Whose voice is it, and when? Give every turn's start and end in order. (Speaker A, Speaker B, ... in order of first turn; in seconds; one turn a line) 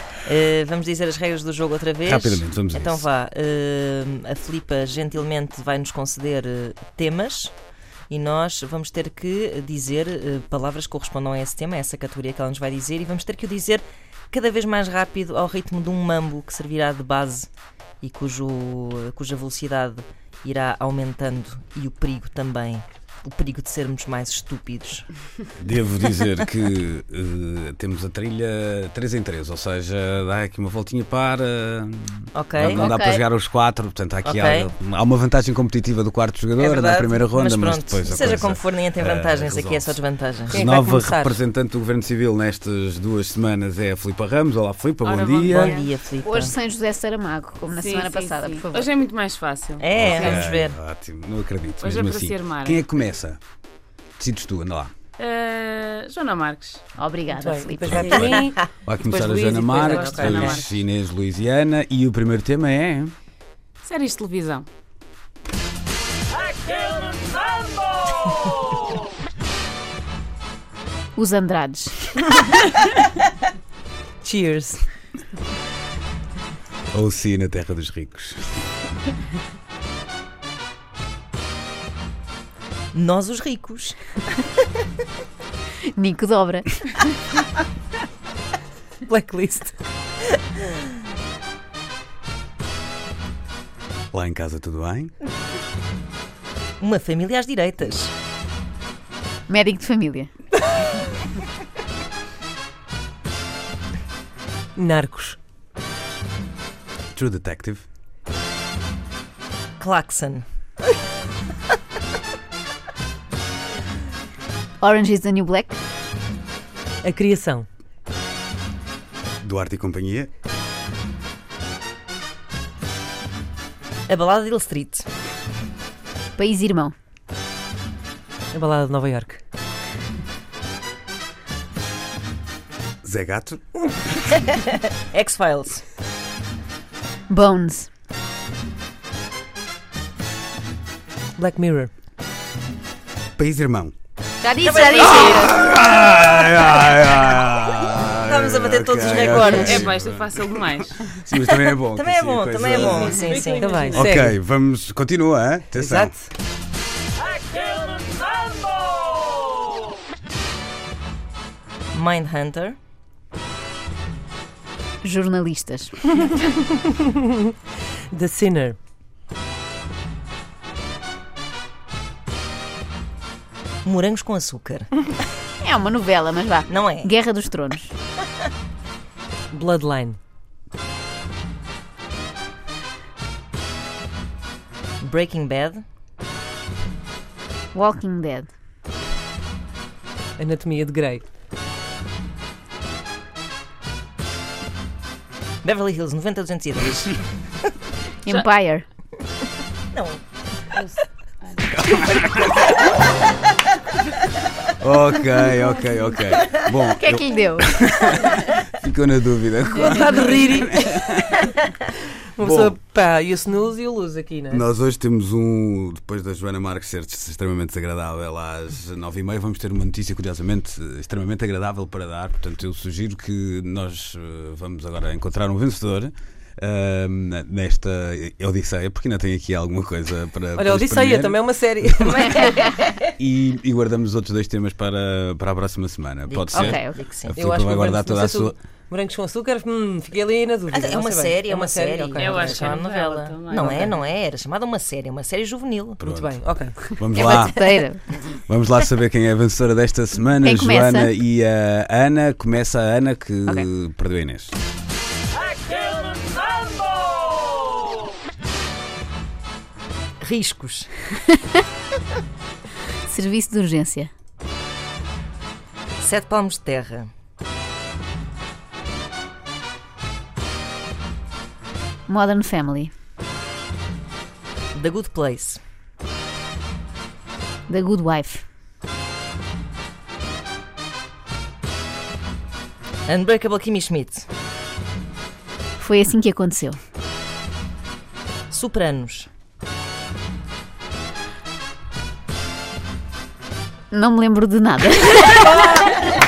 Speaker A: 0.2-7.5
Speaker B: 2.0-3.0
Speaker A: 8.1-17.5
Speaker A: 18.0-25.1
Speaker B: 25.6-40.0
Speaker A: 32.3-32.9
Speaker C: 32.7-33.2
Speaker A: 34.2-34.7
Speaker A: 36.6-40.6
Speaker B: 40.5-45.8
Speaker D: 40.5-41.4
Speaker E: 45.0-45.9
Speaker A: 45.5-46.6
Speaker C: 46.2-48.9
Speaker E: 47.7-50.4
Speaker A: 49.8-50.8
Speaker B: 50.0-53.4
Speaker E: 51.8-52.8
Speaker B: 54.2-54.9
Speaker E: 55.2-56.8
Speaker C: 57.0-58.4
Speaker D: 57.3-60.6
Speaker B: 57.9-63.1
Speaker E: 59.9-60.8
Speaker E: 63.8-64.7
Speaker C: 71.2-72.0
Speaker D: 74.2-74.8
Speaker B: 76.9-78.6
Speaker A: 82.9-84.0
Speaker C: 85.9-87.0
Speaker D: 89.1-89.8
Speaker B: 94.1-95.1
Speaker A: 96.8-98.1
Speaker C: 99.5-100.3
Speaker D: 104.8-105.4
Speaker B: 107.2-107.8
Speaker A: 109.8-110.4
Speaker C: 114.8-115.8
Speaker D: 117.0-117.7
Speaker B: 119.4-120.3
Speaker A: 124.1-125.1
Speaker C: 126.4-127.0
Speaker D: 128.5-129.4
Speaker B: 133.0-133.6
Speaker A: 134.3-135.8
Speaker C: 137.3-137.9
Speaker D: 141.4-141.9
Speaker B: 143.4-143.9
Speaker C: 144.4-145.6
Speaker A: 144.6-145.7
Speaker B: 145.2-153.2
Speaker A: 148.3-150.0
Speaker E: 149.4-151.2
Speaker A: 151.3-154.1
Speaker D: 152.8-154.4
Speaker B: 153.9-156.1
Speaker A: 155.8-156.1
Speaker A: 161.9-162.8
Speaker C: 165.0-166.3
Speaker D: 168.1-168.8
Speaker A: 173.8-175.1
Speaker C: 175.6-177.9
Speaker A: 176.7-177.1
Speaker D: 179.5-180.2
Speaker A: 185.0-185.8
Speaker C: 187.7-188.5
Speaker D: 190.4-191.2
Speaker A: 195.6-197.2
Speaker C: 198.2-198.8
Speaker A: 199.9-200.2
Speaker E: 201.5-201.8
Speaker B: 201.8-202.6
Speaker B: 204.8-211.6
Speaker C: 206.9-207.8
Speaker D: 209.8-211.3
Speaker D: 212.3-214.7
Speaker B: 212.4-212.8
Speaker B: 214.5-232.3
Speaker D: 230.6-232.6
Speaker A: 232.2-233.0
Speaker B: 233.2-238.6
Speaker A: 236.3-237.3
Speaker C: 236.5-237.0
Speaker D: 237.3-242.8
Speaker A: 240.7-246.0
Speaker E: 242.2-244.0
Speaker B: 246.0-254.6
Speaker D: 246.0-246.8
Speaker C: 247.1-248.2
Speaker C: 250.4-251.1
Speaker A: 260.2-260.9
Speaker C: 263.1-264.1
Speaker A: 266.0-267.1
Speaker C: 272.1-272.9
Speaker A: 274.8-275.6
Speaker C: 277.7-278.4
Speaker A: 283.1-284.2
Speaker C: 285.8-286.8
Speaker A: 288.5-289.3
Speaker C: 293.9-295.9
Speaker D: 295.3-295.9